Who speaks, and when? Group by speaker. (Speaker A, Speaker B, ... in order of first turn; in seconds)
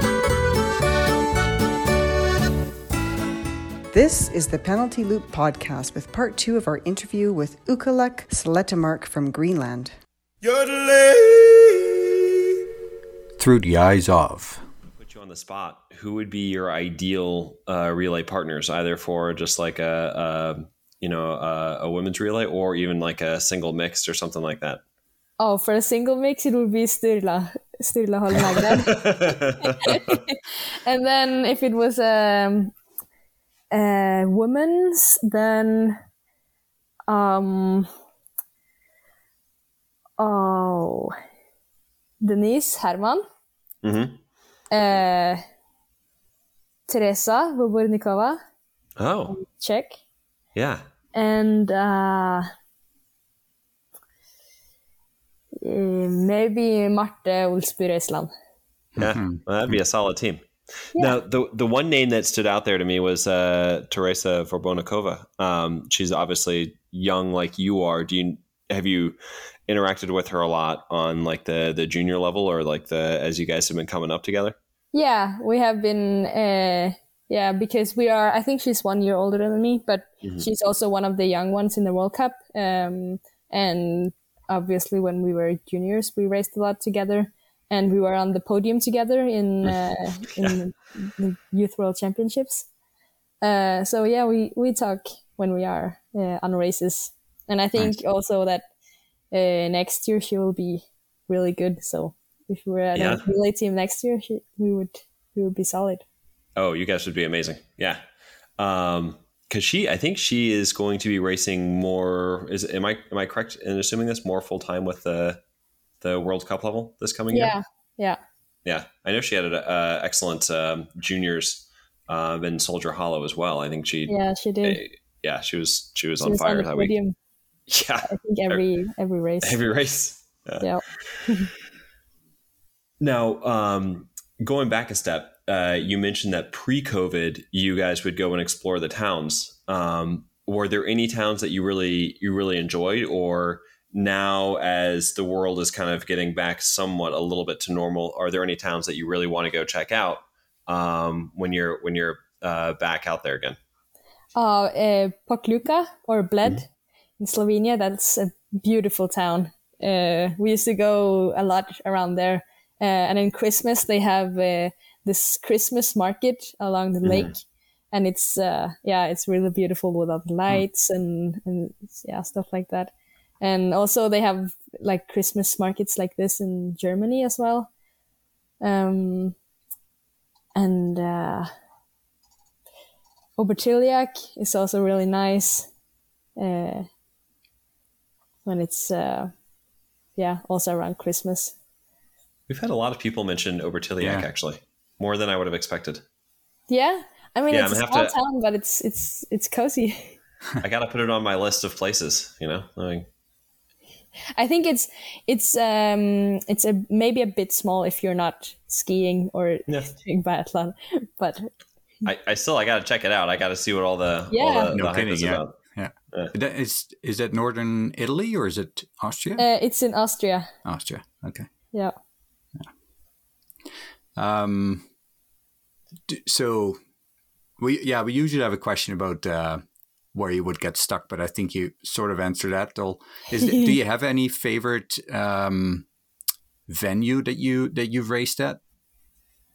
Speaker A: 3.9-9.9, 10.6-11.9
Speaker B: 13.4-14.6, 59.0-59.4, 194.0-194.3, 214.7-219.4, 220.6-221.5, 224.2-224.8, 226.1-226.8, 227.6-229.6, 230.1-235.9, 236.7-238.6
Speaker C: 14.9-24.8, 28.3-30.2, 43.8-44.2, 49.0-49.4, 50.5-50.8, 59.0-69.2, 69.7-74.5, 102.9-103.2, 106.5-108.0, 108.6-115.4, 116.0-117.5, 118.6-126.9, 127.7-128.6, 129.4-130.7, 133.0-153.6, 167.0-167.3, 192.5-196.0, 197.5-198.1, 200.6-203.1, 212.0-215.5
Speaker D: 25.4-32.7, 33.7-36.0, 37.1-37.9, 40.2-41.1, 42.2-43.2, 44.7-45.4, 46.9-48.4, 49.3-50.0, 51.1-52.5, 55.6-58.3, 74.9-92.7, 93.4-98.7, 99.3-106.0, 117.3-118.2, 124.1-124.8, 126.2-127.1, 128.1-129.6, 130.6-131.5, 154.3-156.7, 157.2-177.7, 178.6-179.3, 180.6-181.5, 183.4-185.7, 186.4-186.8, 188.4-189.3, 190.2-191.5, 196.7-200.1, 204.3-211.5, 214.3-214.7, 219.4-220.5, 233.4-233.7